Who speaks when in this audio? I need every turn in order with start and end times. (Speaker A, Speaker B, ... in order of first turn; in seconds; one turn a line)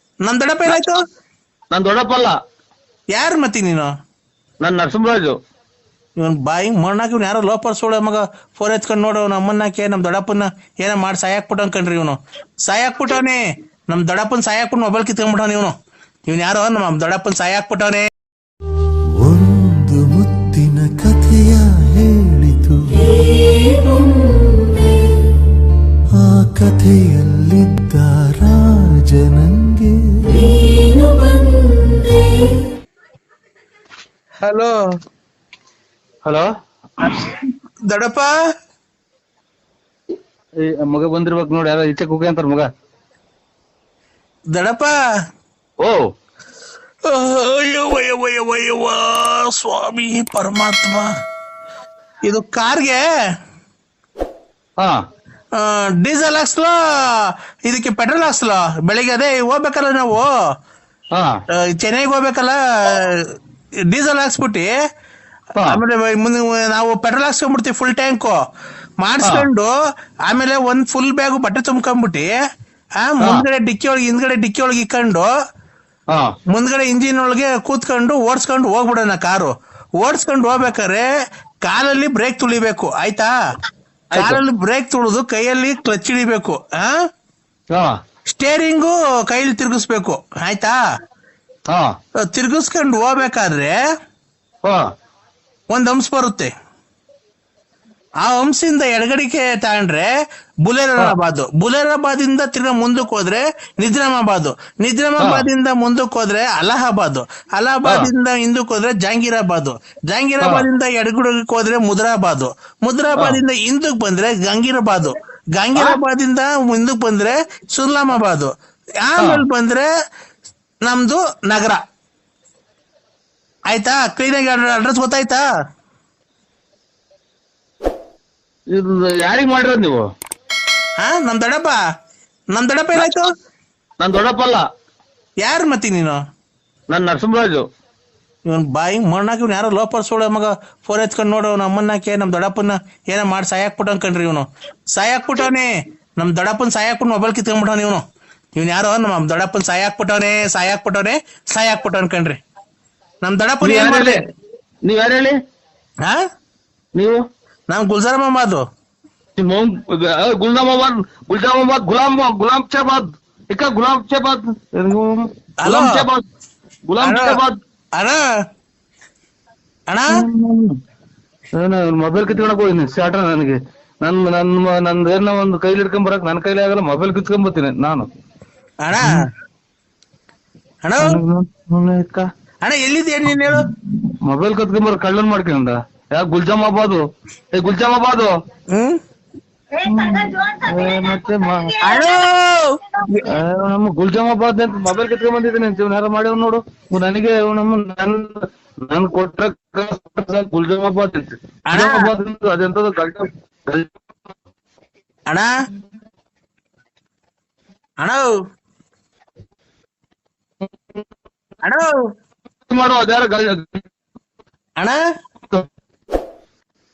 Speaker A: 0.3-1.0
Speaker B: 1.7-2.4
Speaker A: 3.1-3.9
Speaker B: 4.6-5.4
Speaker A: 6.2-13.4
Speaker A: 13.9-15.7
Speaker A: 16.3-18.1
Speaker C: 19.2-23.2
Speaker C: 26.2-30.7
Speaker A: 34.4-34.8
Speaker A: 37.0-38.3
Speaker B: 40.6-42.7
Speaker A: 44.5-45.0
Speaker A: 47.1-51.1
Speaker A: 52.2-53.0
Speaker A: 55.5-60.3
Speaker A: 61.5-63.2
Speaker A: 63.9-64.7
Speaker A: 65.7-68.4
Speaker A: 69.0-69.7
Speaker A: 70.3-72.3
Speaker A: 73.0-75.3
Speaker A: 76.5-81.1
Speaker A: 81.6-83.3
Speaker B: 84.1-84.4
Speaker A: 84.1-86.9
Speaker A: 88.3-90.8
Speaker A: 92.3-93.8
Speaker A: 95.7-96.5
Speaker A: 98.2-100.1
Speaker A: 100.7-118.5
Speaker B: 105.2-105.5
Speaker A: 119.0-119.9
Speaker A: 120.8-121.8
Speaker A: 123.7-125.4
Speaker B: 128.7-130.0
Speaker A: 131.0-131.8
Speaker A: 132.5-133.3
Speaker B: 134.0-134.7
Speaker A: 135.4-136.2
Speaker B: 136.9-137.6
Speaker A: 138.5-148.0
Speaker A: 148.6-152.4
Speaker A: 153.2-154.2
Speaker B: 153.6-154.2
Speaker B: 154.8-155.4
Speaker B: 156.9-157.2
Speaker A: 157.7-158.6
Speaker B: 159.4-166.3
Speaker A: 165.6-166.0
Speaker B: 166.9-167.6
Speaker A: 167.0-167.4
Speaker A: 168.0-168.2
Speaker B: 170.2-170.7
Speaker B: 171.6-178.1
Speaker A: 178.8-179.2
Speaker A: 180.8-181.2
Speaker B: 181.0-182.3
Speaker A: 182.6-183.6
Speaker B: 183.4-187.0
Speaker B: 187.5-188.3
Speaker A: 188.7-189.0
Speaker B: 189.8-191.8
Speaker A: 191.8-193.2
Speaker B: 193.3-204.0
Speaker A: 201.7-202.1
Speaker A: 208.0-208.3
Speaker A: 211.6-211.9
Speaker B: 212.7-213.8